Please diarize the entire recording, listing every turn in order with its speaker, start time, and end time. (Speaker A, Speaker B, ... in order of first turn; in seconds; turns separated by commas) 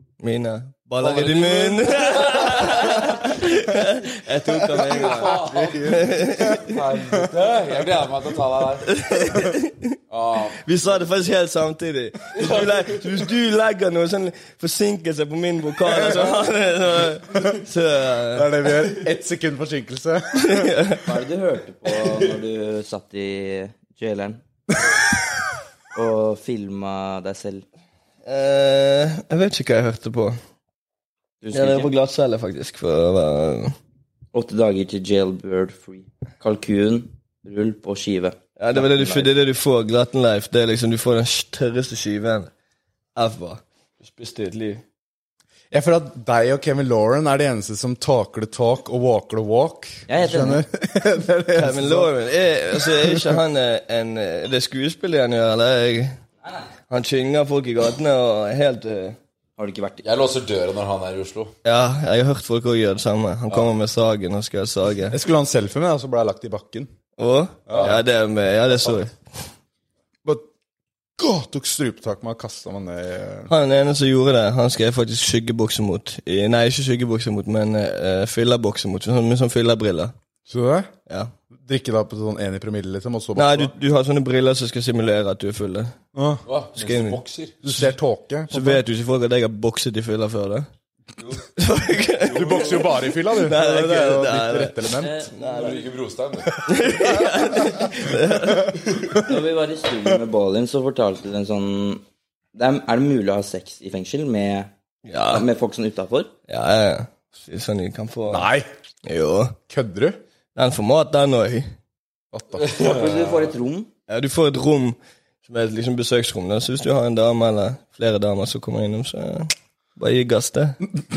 Speaker A: 0.2-6.7, Speaker B: 1.0-3.0, Speaker B: 4.8-9.0, Speaker C: 5.4-7.2, Speaker A: 8.9-10.0, Speaker B: 10.1-10.8, Speaker A: 10.6-19.0, Speaker B: 12.4-13.0, Speaker C: 18.3-20.7, Speaker A: 20.4-21.1, Speaker D: 21.1-24.4, Speaker D: 25.9-27.6, Speaker A: 28.2-30.4, Speaker D: 31.4-31.9, Speaker A: 31.5-33.8, Speaker D: 34.3-39.3, Speaker A: 38.6-42.5, Speaker A: 43.2-44.8, Speaker C: 45.7-52.1, Speaker D: 50.1-50.6, Speaker A: 51.5-56.2, Speaker C: 52.7-53.4, Speaker A: 56.9-59.2, Speaker D: 59.6-60.0, Speaker B: 60.0-61.5, Speaker A: 61.6-65.2, Speaker C: 65.1-66.9, Speaker A: 67.2-69.1, Speaker C: 67.7-68.0, Speaker B: 67.7-68.0, Speaker C: 71.2-73.5, Speaker A: 73.5-80.1, Speaker C: 80.5-80.9, Speaker C: 81.6-83.7, Speaker A: 83.4-85.9, Speaker C: 86.1-86.4, Speaker B: 86.5-87.6, Speaker A: 86.8-87.2, Speaker C: 87.6-88.8, Speaker A: 88.5-90.7, Speaker B: 91.2-91.4, Speaker A: 91.6-95.8, Speaker B: 92.2-92.9, Speaker C: 92.3-95.3, Speaker D: 95.0-95.7, Speaker B: 95.4-96.5, Speaker C: 96.6-97.3, Speaker A: 96.7-98.8, Speaker D: 99.2-102.0, Speaker D: 102.5-104.7, Speaker A: 105.1-105.5, Speaker D: 105.3-106.3, Speaker A: 106.5-108.5, Speaker C: 108.3-108.7, Speaker A: 109.0-109.6, Speaker C: 109.7-110.2, Speaker A: 110.5-111.7, Speaker C: 112.3-112.7, Speaker B: 112.5-113.5, Speaker D: 112.8-113.9, Speaker A: 114.1-120.9